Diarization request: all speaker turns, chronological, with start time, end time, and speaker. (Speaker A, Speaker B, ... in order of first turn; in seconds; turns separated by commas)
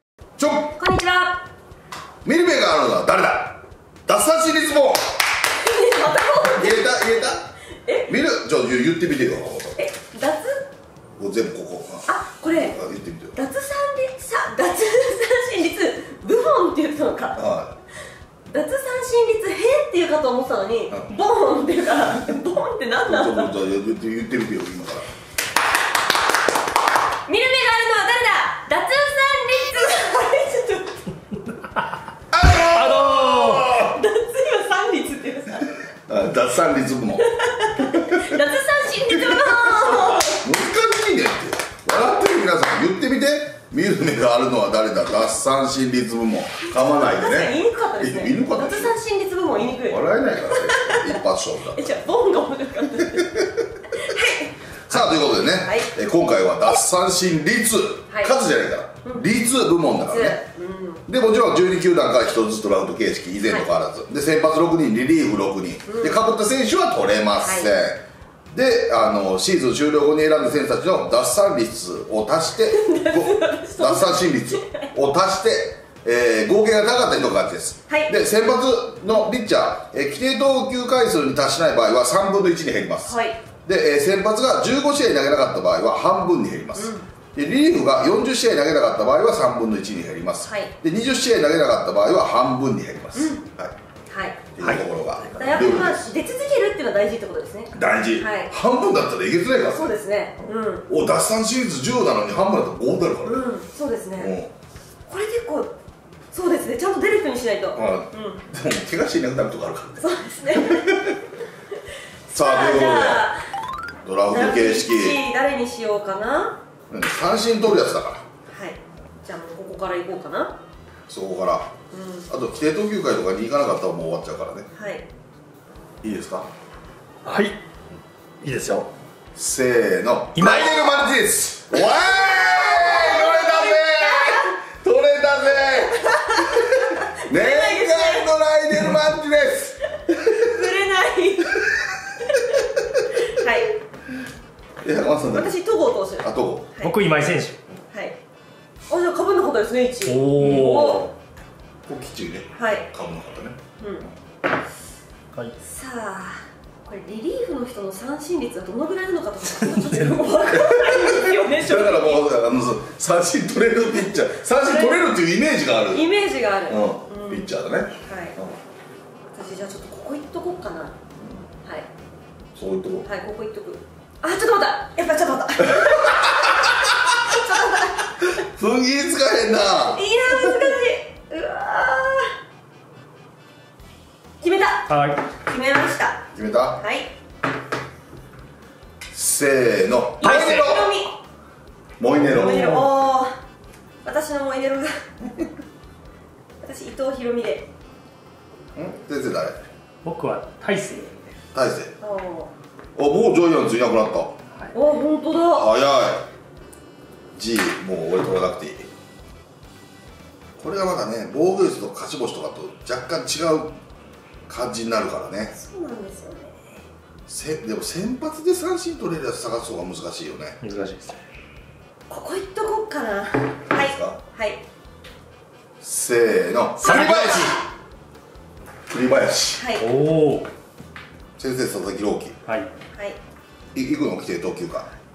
Speaker A: 0.4-0.8, Speaker B: 0.8-1.4, Speaker A: 2.2-5.0, Speaker B: 5.5-8.1, Speaker A: 6.5-7.5, Speaker A: 8.1-9.8, Speaker B: 9.8-10.7, Speaker A: 11.2-13.4, Speaker B: 12.1-12.8, Speaker B: 13.3-17.4, Speaker A: 17.4-17.7, Speaker B: 18.5-23.6, Speaker A: 23.1-25.1, Speaker B: 27.3-31.0, Speaker A: 32.3-34.0, Speaker C: 32.5-33.8, Speaker B: 33.7-35.8, Speaker A: 36.1-37.3, Speaker B: 37.2-40.4, Speaker A: 37.8-38.2, Speaker A: 39.2-49.0, Speaker B: 46.9-54.5, Speaker A: 49.7-51.9, Speaker A: 53.2-53.5, Speaker A: 54.9-60.4, Speaker B: 55.6-55.9, Speaker B: 58.1-58.4, Speaker B: 60.1-61.0, Speaker A: 61.1-93.7, Speaker B: 65.9-66.3, Speaker B: 67.4-67.8, Speaker B: 72.7-74.9, Speaker B: 77.9-78.2, Speaker B: 83.0-83.4, Speaker B: 86.8-87.1, Speaker B: 90.4-90.7, Speaker B: 93.1-93.4, Speaker B: 94.1-94.4, Speaker A: 94.5-96.1, Speaker B: 95.2-98.5, Speaker A: 97.7-100.0, Speaker B: 99.7-100.9, Speaker A: 100.9-103.5, Speaker B: 103.2-104.3, Speaker A: 104.2-104.5, Speaker B: 105.1-105.7, Speaker B: 106.3-108.4, Speaker A: 107.8-111.2, Speaker B: 110.0-111.0, Speaker A: 112.3-113.3, Speaker B: 112.3-113.4, Speaker A: 114.0-115.2, Speaker B: 114.3-116.6, Speaker A: 116.9-118.2, Speaker B: 118.5-120.6, Speaker A: 121.1-121.7, Speaker B: 121.9-122.3, Speaker A: 122.3-124.7, Speaker B: 124.8-125.1, Speaker A: 126.0-126.5, Speaker C: 127.2-127.6, Speaker C: 128.4-128.9, Speaker A: 129.3-139.8, Speaker C: 130.3-131.1, Speaker B: 131.8-134.6, Speaker B: 136.0-138.3, Speaker B: 140.1-141.6, Speaker B: 142.3-142.6, Speaker B: 143.2-143.7, Speaker A: 144.8-145.5, Speaker B: 145.3-146.9, Speaker A: 146.2-146.7, Speaker C: 146.8-147.6, Speaker B: 147.9-148.2, Speaker B: 148.9-151.1, Speaker C: 150.1-151.1, Speaker A: 150.5-150.9, Speaker A: 151.9-153.6, Speaker B: 152.6-152.9, Speaker B: 153.8-154.1, Speaker B: 155.6-162.3, Speaker C: 159.4-160.4, Speaker A: 160.5-166.1, Speaker B: 164.6-165.1, Speaker B: 165.9-167.5, Speaker A: 166.7-168.6, Speaker B: 168.0-168.4, Speaker B: 169.3-171.0, Speaker A: 172.6-173.1, Speaker B: 173.1-178.1, Speaker A: 175.7-176.4, Speaker A: 178.4-180.6, Speaker B: 179.8-182.3, Speaker B: 184.4-186.2, Speaker C: 184.9-185.2, Speaker A: 186.3-186.8, Speaker B: 186.8-187.1, Speaker A: 189.1-190.9, Speaker C: 190.2-190.7, Speaker B: 190.2-191.2, Speaker A: 192.0-192.8, Speaker C: 192.2-192.9, Speaker B: 192.2-193.3, Speaker B: 194.0-195.0, Speaker B: 196.6-197.7, Speaker A: 198.8-199.6, Speaker C: 200.0-201.2, Speaker A: 201.5-201.9, Speaker B: 202.0-202.5, Speaker A: 203.0-204.3, Speaker B: 204.7-205.7, Speaker A: 205.5-206.3, Speaker A: 207.4-208.9, Speaker A: 210.6-213.8, Speaker A: 214.5-215.5, Speaker B: 215.5-216.8, Speaker A: 217.3-220.6, Speaker C: 220.6-221.2, Speaker B: 222.1-224.6, Speaker A: 223.7-224.2, Speaker A: 225.8-227.6, Speaker C: 226.8-227.6, Speaker B: 226.8-227.6, Speaker A: 228.9-229.7, Speaker B: 229.6-229.8, Speaker C: 229.8-230.5, Speaker A: 231.4-232.3, Speaker B: 232.9-233.2, Speaker A: 233.7-234.9